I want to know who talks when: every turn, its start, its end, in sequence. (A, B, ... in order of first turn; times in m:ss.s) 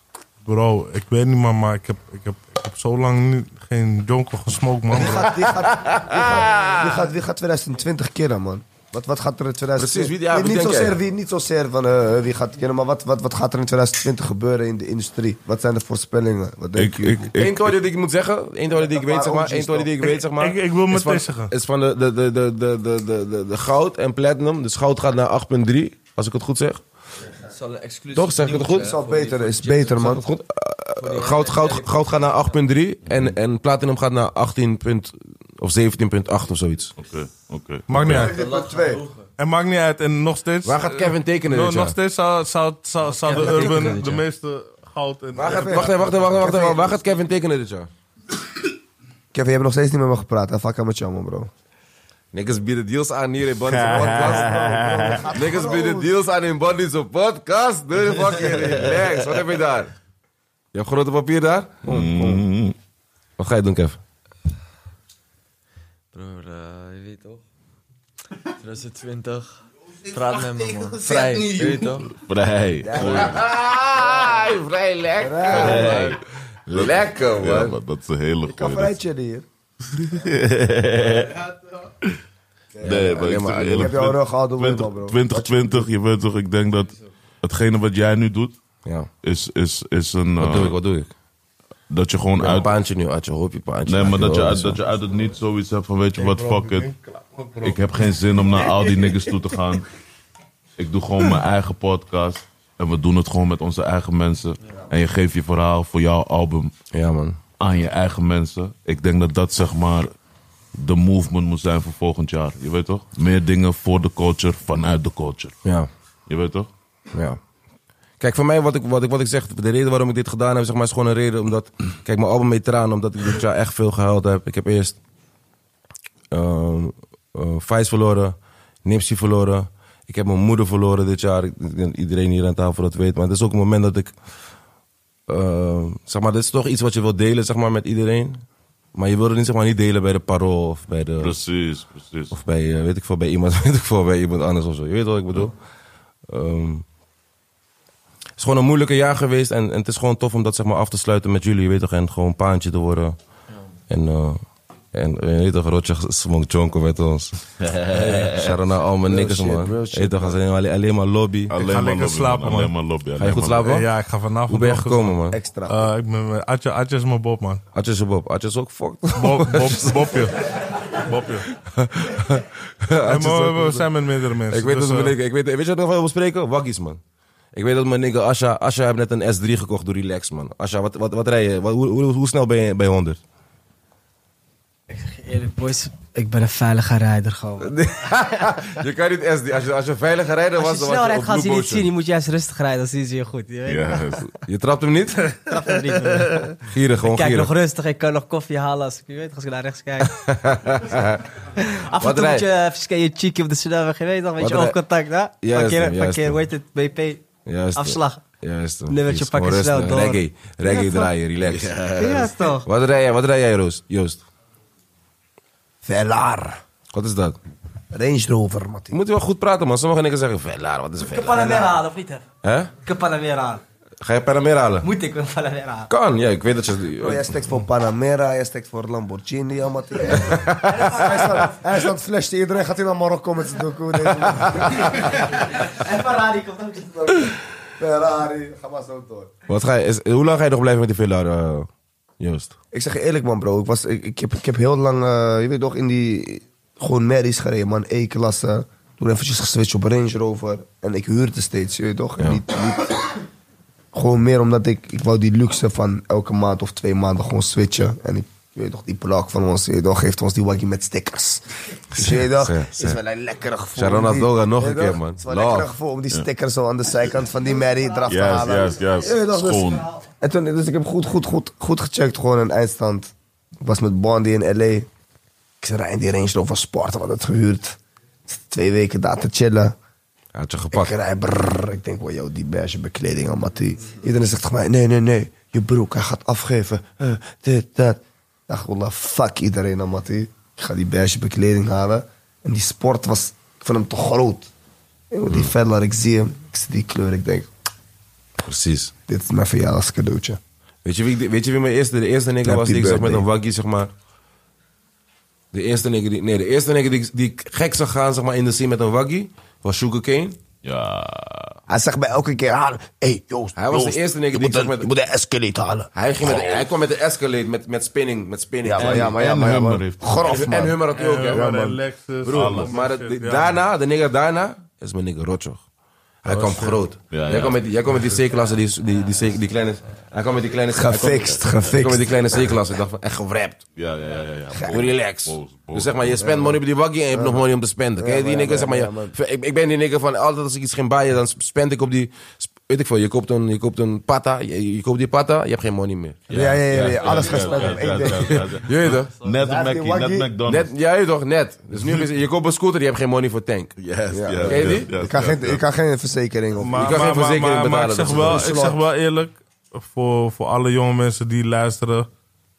0:00.4-0:05.3 A
0:04.9-0:17.3 B
0:05.5-0:06.9 C
0:09.8-0:11.0 C
0:16.8-0:17.8 D
0:17.4-0:26.8 C
0:18.7-0:20.0 B
0:20.1-0:21.5 A
0:27.4-0:30.2 E
0:28.1-0:29.0 C
0:28.7-0:30.2 B
0:30.0-0:36.9 C
0:31.0-0:32.6 E
0:33.1-0:33.3 D
0:37.0-0:38.3 D
0:37.9-0:38.4 A
0:38.1-0:39.0 B
0:38.2-0:39.3 E
0:39.4-0:46.2 A
0:40.6-0:42.0 C
0:43.0-0:44.2 E
0:45.4-0:47.9 C
0:45.4-0:47.0 B
0:49.3-0:51.5 B
0:52.3-0:54.6 C
0:53.7-0:55.2 D
0:53.8-0:56.2 B
0:55.3-0:59.9 C
1:00.7-1:02.4 C
1:01.9-1:02.8 D
1:02.0-1:02.2 B
1:03.4-1:04.0 C
1:06.1-1:07.4 E
1:08.5-1:12.1 E
1:11.1-1:11.6 B
1:12.1-1:13.5 D
1:12.8-1:13.4 B
1:12.9-1:17.8 C
1:15.2-1:16.1 B
1:15.5-1:16.2 D
1:16.7-1:18.9 D
1:18.5-1:19.5 B
1:20.0-1:21.4 D
1:22.8-1:23.1 B
1:22.8-1:24.0 C
1:22.8-1:28.6 D
1:23.7-1:25.9 B
1:29.2-1:30.8 D
1:30.4-1:31.1 C
1:31.9-1:32.7 D
1:32.4-1:34.8 C
1:33.9-1:36.9 D
1:36.2-1:37.8 A
1:37.6-1:39.9 D
1:40.8-1:46.7 D
1:46.9-1:47.4 C
1:47.6-1:50.1 D
1:50.8-1:55.6 D
1:56.3-1:56.7 D
1:57.1-1:57.4 C
1:58.2-2:05.0 C
2:06.3-2:14.1 C
2:15.3-2:18.4 C
2:19.0-2:21.4 C
2:21.2-2:22.4 D
2:22.3-2:25.6 C
2:26.3-2:26.8 C
2:28.4-2:33.2 C
2:33.9-2:34.4 C
2:34.9-2:37.4 C
2:37.6-2:38.6 D
2:37.9-2:41.5 C
2:39.1-2:40.3 B
2:41.5-2:43.7 D
2:41.6-2:42.8 A
2:43.2-2:43.9 C
2:43.6-2:45.2 A
2:44.5-2:45.4 C
2:45.3-2:45.9 B
2:45.7-2:47.6 A
2:47.7-2:50.3 C
2:49.2-2:50.4 A
2:51.0-2:51.5 A
2:51.6-2:54.0 C
2:53.0-2:55.2 A
2:54.5-2:57.0 C
2:57.5-3:03.2 C
3:04.9-3:08.5 F
3:07.6-3:11.9 C
3:10.6-3:14.2 F
3:13.6-3:14.3 D
3:14.3-3:15.4 C
3:15.5-3:20.2 F
3:16.7-3:17.5 C
3:20.0-3:21.2 C
3:21.6-3:28.2 F
3:22.0-3:22.5 C
3:24.4-3:24.8 C
3:25.4-3:26.4 C
3:27.5-3:34.2 C
3:28.9-3:31.1 F
3:31.5-3:32.2 D
3:31.9-3:32.7 F
3:35.8-3:36.6 B
3:36.9-3:37.4 C
3:37.9-3:39.0 B
3:38.9-3:41.7 C
3:41.0-3:42.2 F
3:42.4-3:42.7 C
3:42.8-3:43.6 F
3:44.0-3:44.9 C
3:44.8-3:45.9 F
3:45.9-3:47.3 C
3:47.0-3:55.2 B
3:50.2-3:50.8 C
3:50.7-3:51.5 F
3:55.0-3:57.1 F
3:57.0-3:59.3 B
3:59.5-4:01.7 C
4:02.2-4:02.5 C
4:02.7-4:13.0 B
4:13.9-4:34.9 B
4:22.0-4:23.0 C
4:23.8-4:25.7 C
4:28.1-4:29.9 D
4:35.6-4:39.8 B
4:40.4-4:40.9 C
4:40.7-4:54.5 B
4:55.1-4:57.5 B
4:58.5-4:58.9 C
4:59.1-5:00.4 B
5:00.8-5:03.9 C
5:02.4-5:03.3 B
5:05.5-5:10.4 C
5:10.6-5:11.6 D
5:11.7-5:16.6 B
5:13.6-5:14.9 C
5:16.0-5:19.2 C
5:18.6-5:21.8 B
5:18.7-5:20.7 D
5:20.2-5:21.6 C
5:20.9-5:23.6 A
5:22.2-5:25.6 C
5:22.3-5:22.8 D
5:26.2-5:33.6 C
5:26.3-5:26.8 A
5:27.1-5:27.6 D
5:30.8-5:32.2 B
5:33.8-5:36.2 D
5:34.7-5:46.4 C
5:36.2-5:36.6 B
5:37.1-5:37.4 B
5:38.0-5:39.1 B
5:46.3-5:50.7 D
5:46.3-5:48.5 B
5:47.0-5:48.1 E
5:48.6-5:49.1 C
5:49.4-5:50.3 B
5:50.4-5:53.7 C
5:51.8-5:52.0 D
5:53.8-5:55.6 D
5:54.1-5:57.0 B
5:54.4-5:54.9 C
5:56.6-6:02.1 A
5:56.7-5:58.7 C
5:58.2-5:58.8 B